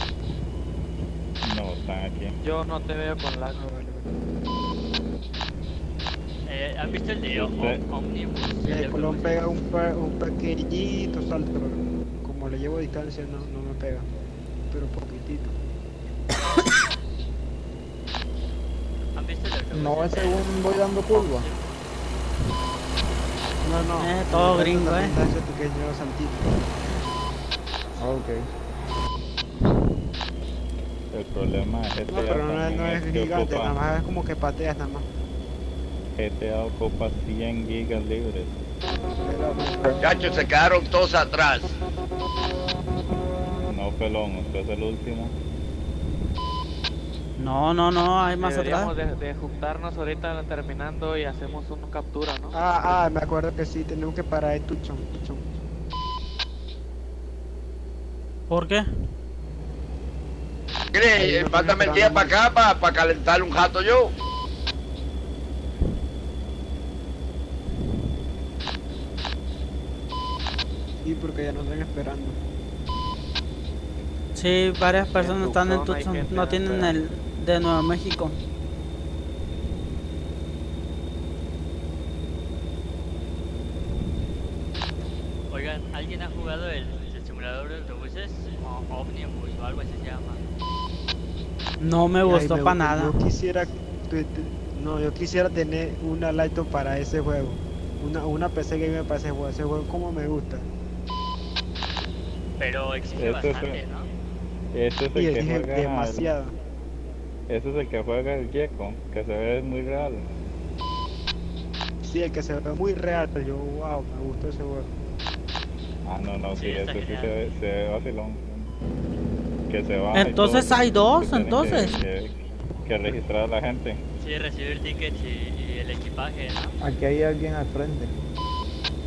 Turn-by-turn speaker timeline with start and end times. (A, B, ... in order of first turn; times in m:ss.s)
0:01.4-0:02.4 A
0:02.4-0:03.6 B
0:03.6-0:04.1 C
0:06.5-0:09.5 D
0:07.3-0:07.8 A
0:08.6-0:14.1 C
0:14.7-0:15.6 C
0:19.2-0:21.9 D
0:19.7-0:21.4 E
0:23.6-0:25.2 F
0:23.8-0:26.6 C
0:28.0-0:28.4 E
0:31.1-0:33.8 A
0:32.1-0:35.1 C
0:36.2-0:38.6 A
0:39.2-0:40.0 C
0:40.0-0:41.7 G
0:43.7-0:45.3 A
0:47.4-0:48.9 F
0:48.4-0:52.6 B
0:52.5-0:55.5 C
0:58.5-0:58.9 F
1:00.9-1:04.1 G
1:01.2-1:02.4 C
1:11.0-1:12.4 C
1:14.4-1:18.4 F
1:15.1-1:17.0 B
1:25.5-1:30.4 D
1:31.8-1:33.1 F
1:32.2-1:40.7 C
1:42.6-1:44.1 D
1:43.1-1:43.8 A
1:44.7-1:46.3 A
1:45.1-1:46.5 C
1:47.5-1:50.2 A
1:52.0-1:54.9 C
1:56.0-1:58.7 A
1:56.5-1:57.3 D
1:59.7-2:02.3 A
2:00.1-2:02.0 F
2:02.9-2:04.0 A
2:04.2-2:06.8 D
2:06.8-2:08.1 E